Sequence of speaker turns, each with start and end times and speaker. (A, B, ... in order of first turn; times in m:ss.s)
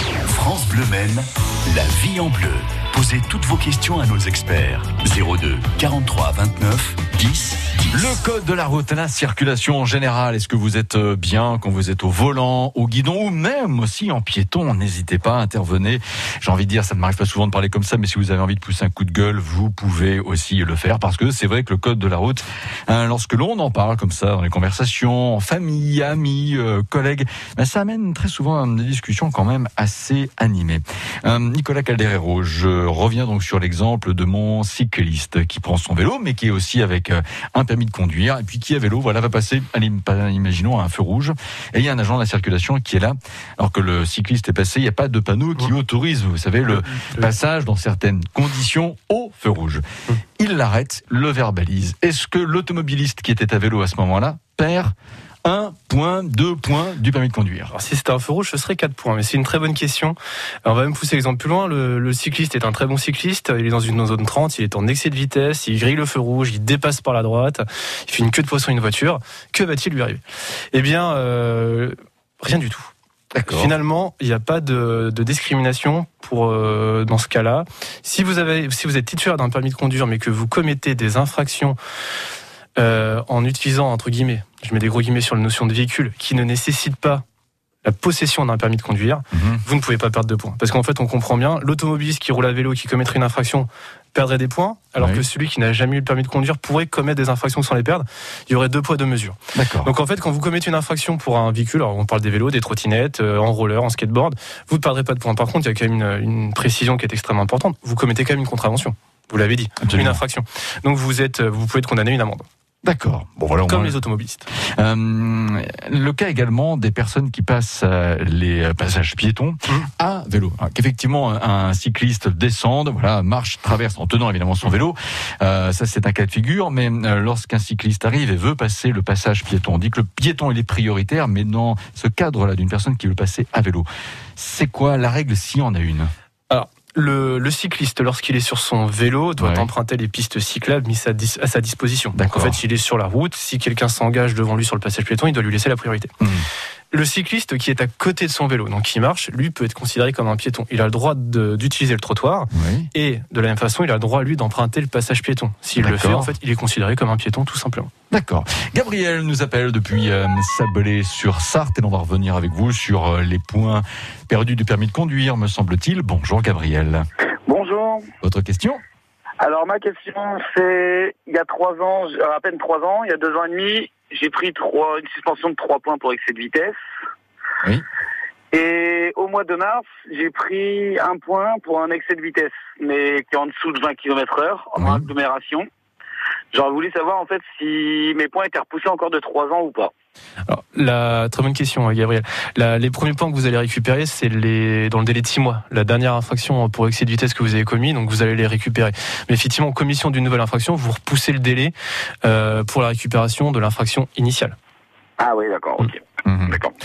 0:00.2-0:08.0 A
0:07.9-0:49.8 B
0:46.7-0:47.3 C
0:50.4-0:57.7 B
0:57.7-1:10.2 C
1:10.7-1:12.9 C
1:13.3-1:13.7 B
1:13.5-1:21.8 C
1:22.8-1:27.2 C
1:27.8-1:52.5 C
1:29.3-1:29.6 B
1:35.0-1:35.2 B
1:39.5-1:39.9 B
1:49.8-1:50.2 B
1:52.8-1:54.0 B
1:53.7-1:54.5 C
1:54.6-2:16.1 B
2:16.5-2:26.1 C
2:19.4-2:19.7 B
2:22.2-2:22.6 B
2:26.2-2:26.5 B
2:26.9-2:37.9 C
2:32.5-2:32.9 B
2:35.8-2:36.3 B
2:38.1-2:47.1 B
2:47.5-2:48.1 D
2:48.2-2:48.8 B
2:49.4-2:56.8 D
2:58.5-3:05.7 D
3:04.8-3:05.1 B
3:06.5-3:09.9 D
3:10.5-3:24.6 C
3:25.2-3:26.7 D
3:26.3-3:26.6 B